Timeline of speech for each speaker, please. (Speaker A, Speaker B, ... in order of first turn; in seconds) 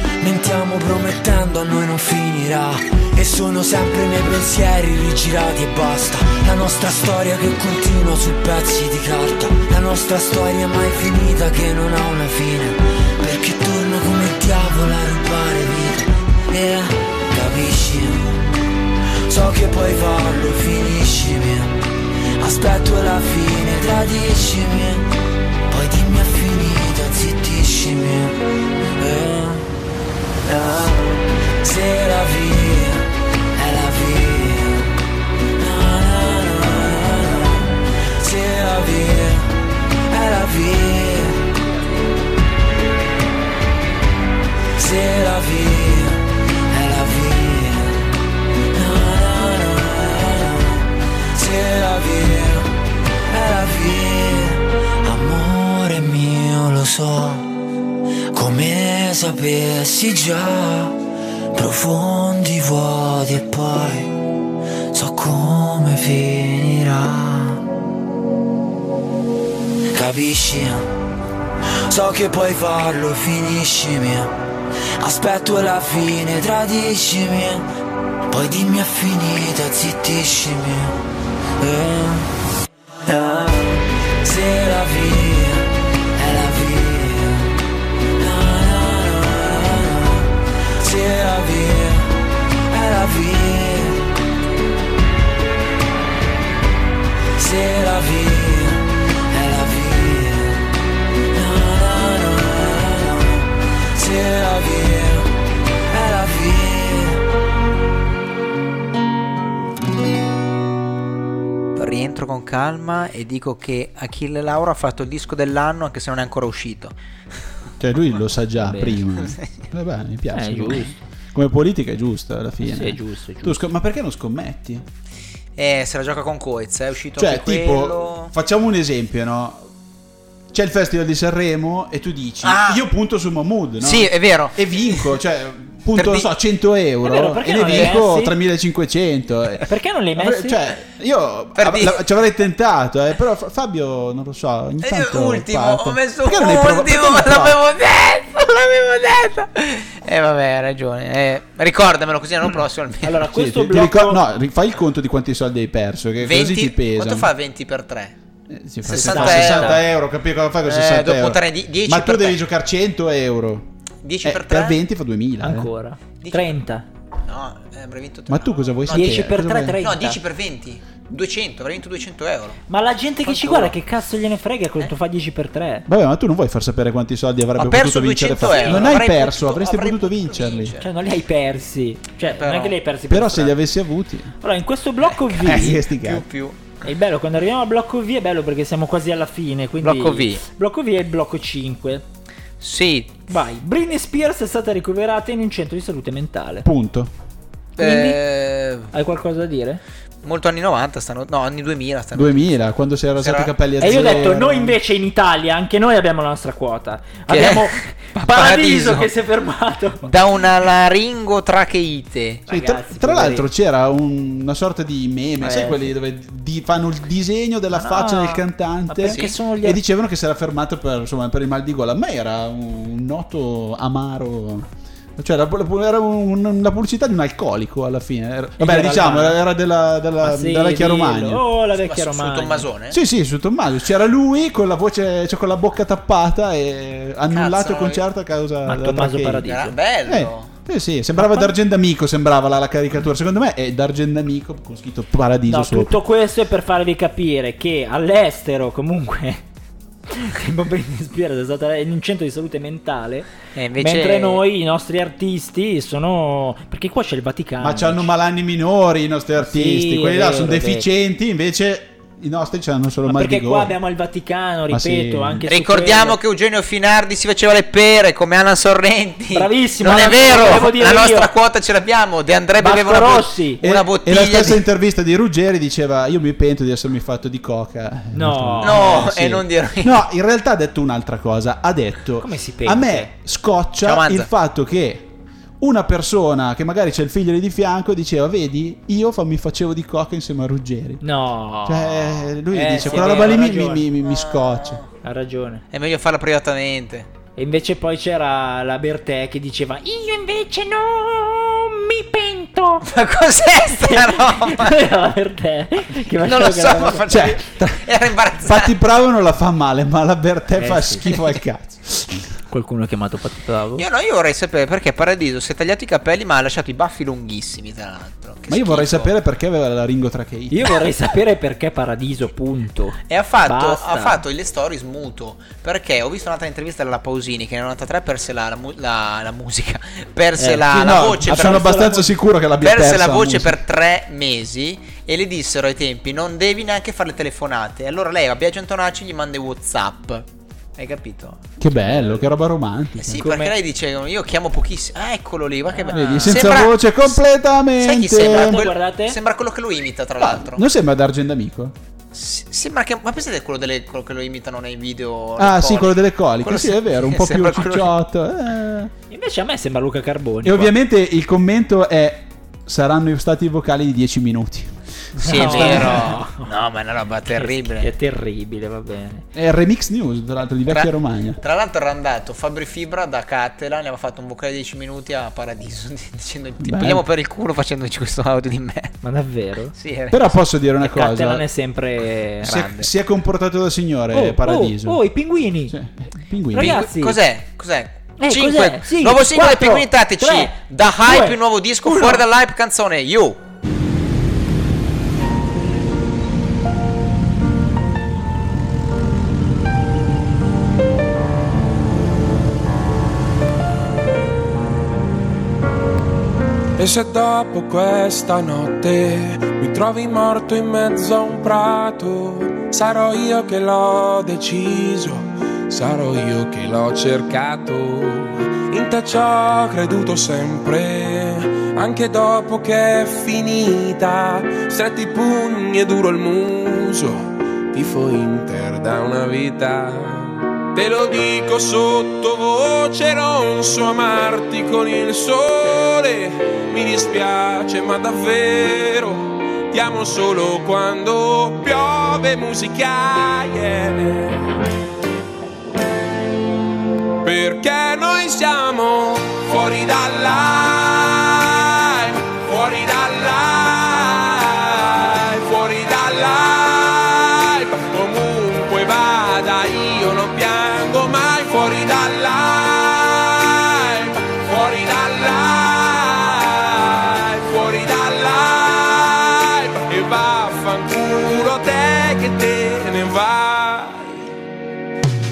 Speaker A: 0.2-18.5, 19.3-25.1, 25.7-28.4, 29.0-29.7, 30.4-34.9, 35.6-39.6, 40.1-41.5, 44.8-48.1, 48.7-52.7, 53.3-57.5, 58.3-61.0, 61.5-64.2, 64.9-67.6, 69.9-70.9, 71.9-74.3, 75.0-77.7, 78.3-81.0, 81.6-82.3, 83.1-87.5, 88.2-92.2, 92.7-94.1, 97.4-100.7, 101.3-105.3, 105.9-107.2
Speaker B: 111.8-117.0, 125.6-128.3, 132.4-132.8, 133.8-135.0, 135.9-136.3, 141.6-142.0, 144.8-153.2, 156.2-158.2, 158.8-159.8, 160.7-162.4, 164.0-164.8, 166.2-166.6, 167.2-172.6, 173.2-173.8, 177.6-180.9, 182.3-182.8, 185.2-186.8, 189.8-190.4, 192.6-193.2, 197.8-198.9, 200.2-202.4, 203.2-204.2, 207.3-209.1, 210.1-212.5, 219.1-219.4, 231.8-233.0, 237.3-238.0, 239.4-240.5, 253.6-254.4, 265.5-274.6, 278.6-280.0, 283.8-284.3, 292.8-293.4, 294.0-294.9, 295.7-297.1, 302.9-304.9, 306.1-308.7, 313.8-319.1, 323.1-332.1, 332.6-340.2, 340.8-342.1, 343.0-347.2, 347.8-350.6, 352.1-357.9, 365.2-367.9, 370.7-379.0, 379.7-380.4, 382.4-382.9, 386.6-393.4
Speaker C: 117.8-124.8, 127.2-129.7, 130.5-147.6, 153.3-157.3, 158.5-163.7, 164.2-165.7, 168.3-169.8, 175.9-180.7, 183.1-184.3, 185.4-186.3, 196.6-197.1, 202.1-204.8, 212.5-231.4, 232.9-246.0, 257.6-263.8, 264.7-265.4, 273.6-285.1, 285.6-291.0, 291.6-294.8, 307.1-307.8, 308.4-312.3, 318.5-320.7, 330.7-333.6, 341.6-343.3, 345.9-348.6, 350.2-351.8, 355.4-358.9, 360.4-366.1, 369.3-371.4, 376.6-377.1, 380.1-381.5, 382.4-385.0, 385.7-386.8
Speaker D: 118.6-119.0, 120.3-121.0, 122.6-123.6, 137.0-138.3, 139.7-140.6, 153.0-154.2, 158.9-159.8, 165.4-166.9, 168.9-170.2, 172.7-175.9, 178.6-178.9, 180.8-183.6, 184.4-185.8, 186.8-192.1, 193.3-196.7, 197.8-198.2, 198.9-199.8, 203.8-210.1, 212.5-213.5, 215.4-215.9, 217.7-219.8, 228.6-229.4, 230.2-232.7, 238.7-239.8, 241.2-241.5, 245.5-249.4, 250.1-253.3, 253.8-258.1, 259.4-260.9, 263.1-266.2, 269.3-271.3, 272.6-273.6, 278.1-279.1, 282.2-283.1, 291.0-293.9, 295.0-295.6, 297.4-302.9, 303.8-307.2, 310.6-311.2, 312.5-313.8, 320.5-324.2, 330.4-330.7, 331.3-332.0, 343.1-343.6, 345.8-346.6, 348.2-349.2, 359.1-360.7, 365.2-366.5, 367.4-369.2, 379.0-379.7, 380.8-382.6, 384.1-385.8, 386.5-387.2, 388.2-392.2
Speaker E: 406.8-444.4, 447.2-474.3